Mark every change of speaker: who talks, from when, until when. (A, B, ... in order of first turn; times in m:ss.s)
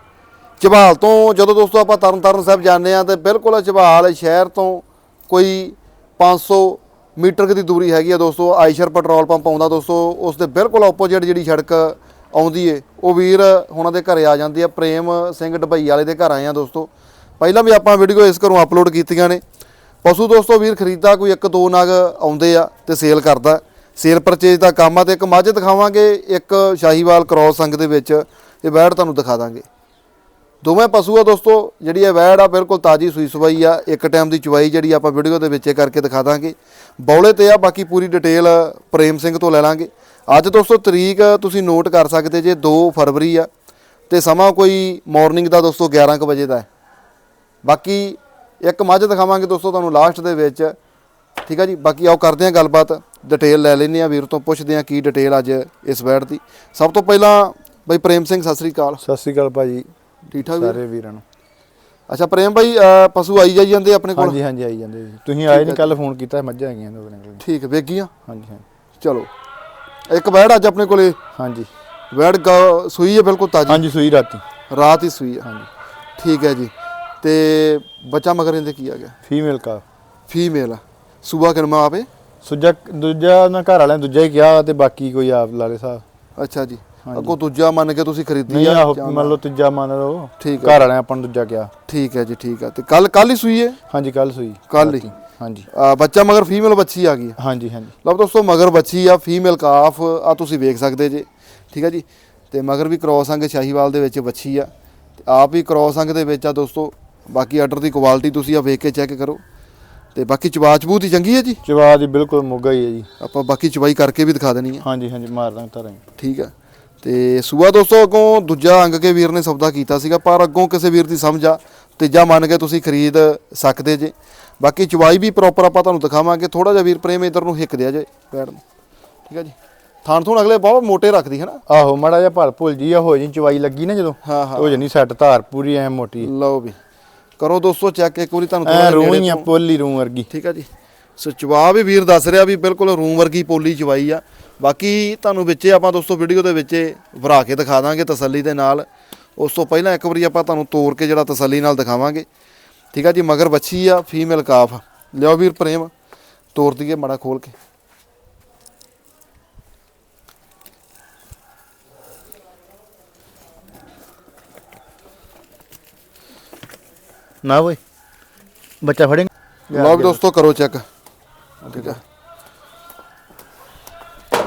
0:00.6-0:19.4 A
0:20.0-0:29.6 A
0:30.6-0:43.5 A
0:44.1-0:46.7 A
0:47.6-0:50.8 A
0:51.4-0:59.0 A
0:59.0-0:59.9 B
1:00.3-1:00.8 A
1:00.4-1:01.2 B
1:02.1-1:04.4 A
1:04.1-1:07.4 B
1:05.5-1:06.0 A
1:07.4-1:08.1 A
1:08.3-1:08.6 B
1:09.0-1:09.3 A
1:10.1-1:11.2 A
1:11.4-1:11.7 B
1:12.1-1:13.8 A
1:13.7-1:14.4 B
1:14.7-1:15.4 A
1:15.4-1:15.7 B
1:16.2-1:19.1 A
1:19.3-1:19.8 B
1:20.3-1:22.1 A
1:22.4-1:26.0 B
1:26.4-1:29.3 A
1:27.0-1:27.4 B
1:28.5-1:31.7 B
1:30.4-1:30.8 A
1:31.9-1:33.8 A
1:33.9-1:35.7 B
1:34.7-1:35.0 A
1:35.7-1:37.4 A
1:37.4-1:37.9 B
1:38.0-1:49.4 A
1:50.1-1:51.6 A
1:51.6-1:53.1 B
1:53.2-1:54.8 A
1:54.8-1:56.0 B
1:56.2-2:08.6 A
2:09.3-2:11.6 A
2:11.7-2:16.3 B
2:14.2-2:14.8 A
2:16.2-2:16.8 A
2:17.4-2:19.5 A
2:18.6-2:20.3 B
2:20.3-2:32.2 A
2:32.9-2:35.9 A
2:36.5-2:37.5 A
2:47.4-2:47.8 B
2:48.8-2:50.2 B
2:49.7-2:50.8 A
2:51.6-2:52.0 B
2:51.7-2:52.0 A